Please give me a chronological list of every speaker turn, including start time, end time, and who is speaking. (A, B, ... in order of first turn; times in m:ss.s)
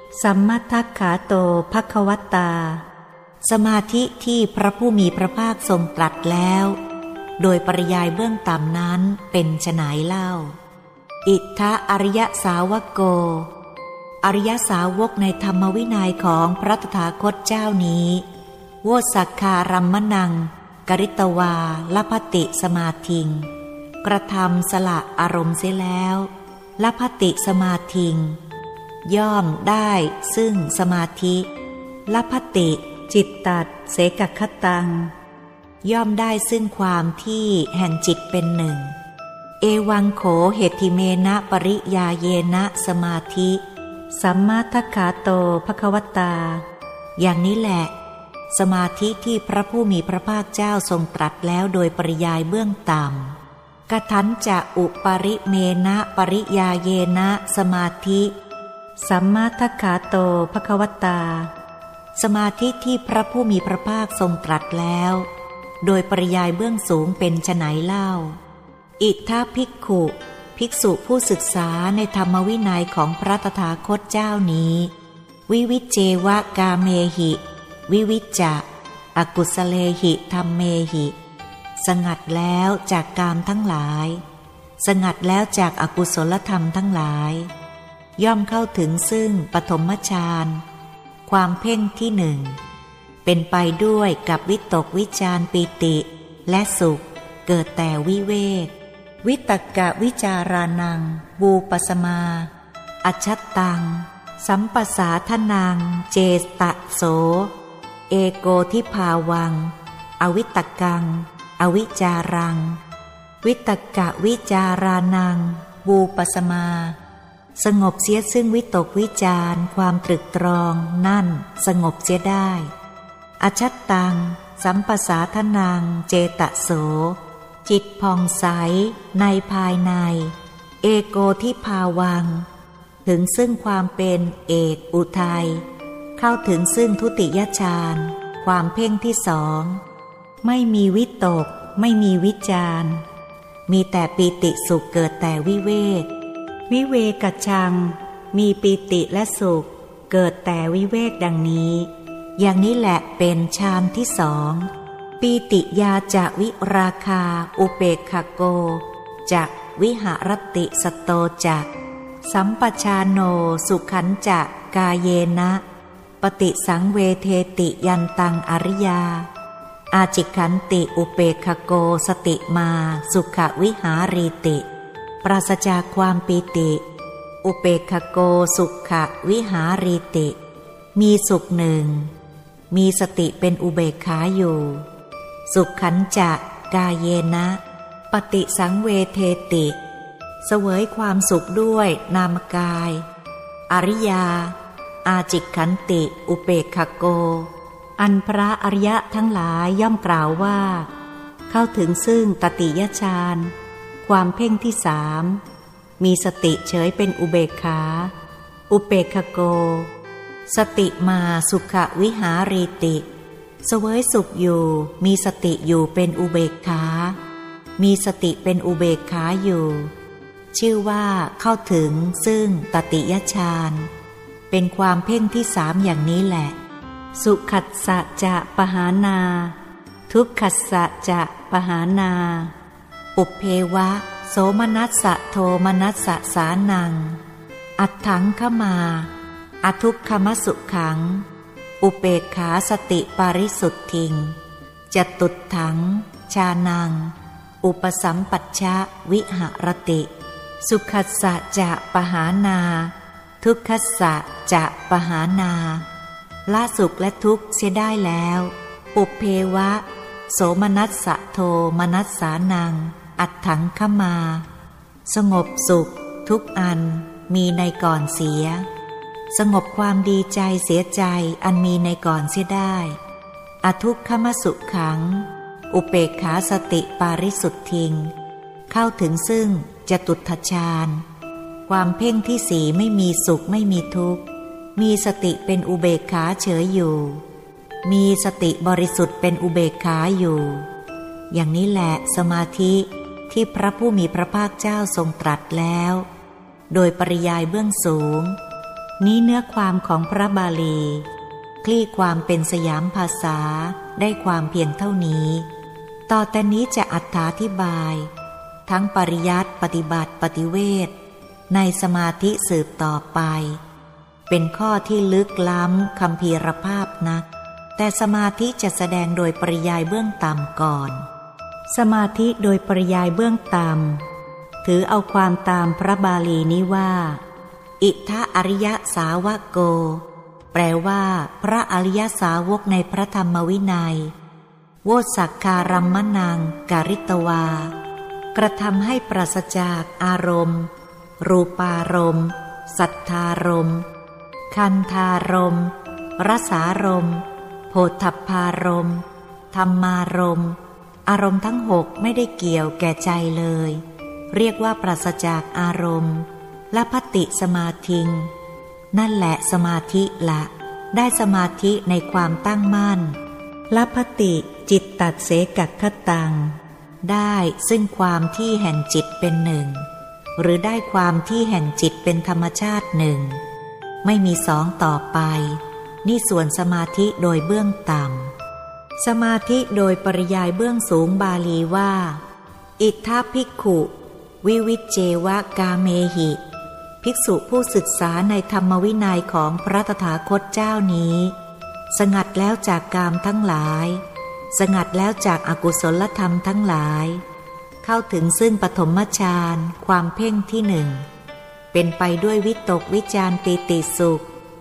0:00.2-0:02.8 A
0:03.4-0:06.8 A
0:07.4-0:10.6 A
0:11.2-0:13.5 A
0:14.2-0:18.3 A
0:18.8-0:23.5 A
0:24.0-0:28.4 A
0:29.0-0:31.5 A
0:32.1-0:35.1 A
0:35.8-0:39.0 A
0:39.6-0:46.6 A
0:47.2-0:47.9 A
0:48.5-0:53.4 A
0:53.9-0:58.3 A
0:59.0-1:01.5 A
1:02.2-1:05.3 A
1:05.8-1:08.4 A
1:09.0-1:14.9 A
1:15.5-1:21.2 A
1:21.8-1:24.2 A
1:24.8-1:27.5 A
1:28.2-1:30.6 A
1:31.3-1:32.6 A
1:33.2-1:38.7 A
1:39.2-1:42.5 A
1:43.0-1:47.5 A
1:48.1-1:52.8 A
1:53.4-1:57.0 A
1:57.6-2:02.7 A
2:03.4-2:12.5 A
2:13.0-2:15.6 A
2:16.2-2:19.8 A
2:20.4-2:23.0 A
2:23.7-2:26.1 A
2:26.7-2:41.7 A
2:42.2-2:45.6 A
2:46.2-2:49.3 A
2:49.9-2:54.6 A
2:55.2-2:56.8 A
2:57.4-3:00.4 A
3:01.0-3:02.1 A
3:02.7-3:04.9 A
3:05.5-3:07.6 A
3:08.1-3:09.8 A
3:10.4-3:13.0 A
3:13.7-3:20.9 A
3:21.5-3:23.5 A
3:24.0-3:25.4 A
3:26.0-3:28.1 A
3:28.7-3:29.9 A
3:30.5-3:33.1 A
3:33.6-3:37.2 A
3:37.8-3:39.9 A
3:40.5-3:43.9 A
3:44.5-3:46.6 A
3:47.2-3:49.6 A
3:50.1-3:52.5 A
3:53.2-3:57.2 A
3:57.8-3:59.1 A
3:59.6-4:01.3 A
4:01.8-4:04.4 A
4:04.9-4:10.1 A
4:10.6-4:15.9 A
4:16.5-4:24.5 A
4:25.1-4:28.7 A
4:29.3-4:33.0 A
4:33.6-4:38.1 A
4:38.7-4:41.0 A
4:41.7-4:44.2 A
4:44.8-4:47.2 A
4:47.8-4:50.6 A
4:51.3-4:56.1 A
4:56.7-4:58.4 A
4:59.0-5:01.1 A
5:01.6-5:05.5 A
5:06.1-5:08.1 A
5:08.7-5:10.9 A
5:11.5-5:13.6 A
5:14.3-5:17.3 A
5:17.8-5:21.0 A
5:21.7-5:24.0 A
5:24.6-5:27.2 A
5:27.8-5:34.1 A
5:34.8-5:37.8 A
5:38.3-5:43.9 A
5:44.5-5:58.3 A
5:58.9-6:03.2 A
6:03.7-6:09.9 A
6:10.4-6:13.4 A
6:14.0-6:18.3 A
6:19.0-6:22.2 A
6:22.8-6:23.9 A
6:24.4-6:26.4 A
6:27.0-6:31.4 A
6:31.9-6:34.0 A
6:34.5-6:37.2 A
6:37.8-6:41.0 A
6:41.7-6:44.3 A